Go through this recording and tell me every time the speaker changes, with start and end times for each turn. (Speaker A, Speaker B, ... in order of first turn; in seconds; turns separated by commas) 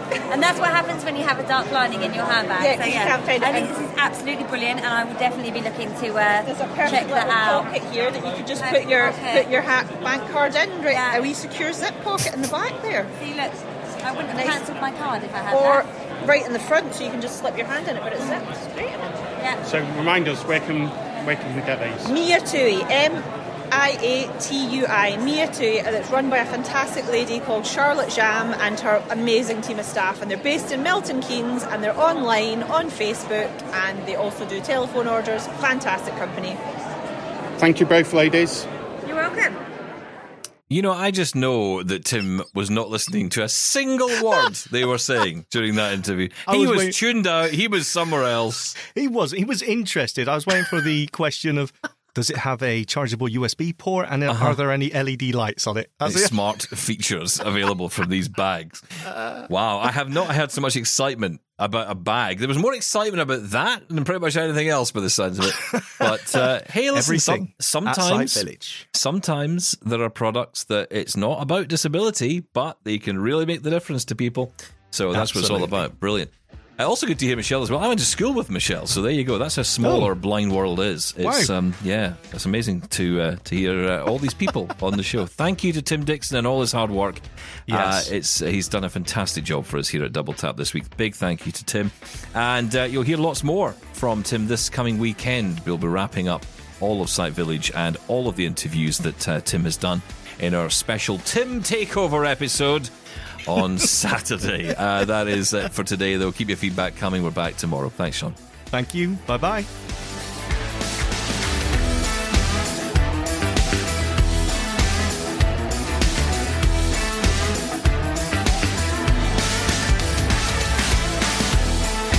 Speaker A: 0.3-7.7, Speaker B: 2.5-3.8, Speaker B: 6.4-13.1, Speaker A: 8.6-9.5, Speaker A: 10.9-11.2, Speaker A: 13.2-15.8, Speaker B: 14.2-14.7, Speaker B: 15.5-19.2, Speaker C: 19.6-22.1, Speaker B: 22.0-36.6, Speaker C: 37.6-38.7, Speaker A: 39.0-39.5, Speaker D: 40.7-48.8, Speaker E: 46.5-47.0, Speaker E: 48.9-56.4, Speaker D: 54.3-54.6, Speaker D: 56.0-102.9, Speaker E: 65.7-68.9, Speaker E: 75.1-75.8, Speaker E: 79.8-80.1, Speaker E: 81.2-81.5, Speaker E: 87.7-88.1, Speaker D: 103.4-108.3, Speaker E: 108.7-109.7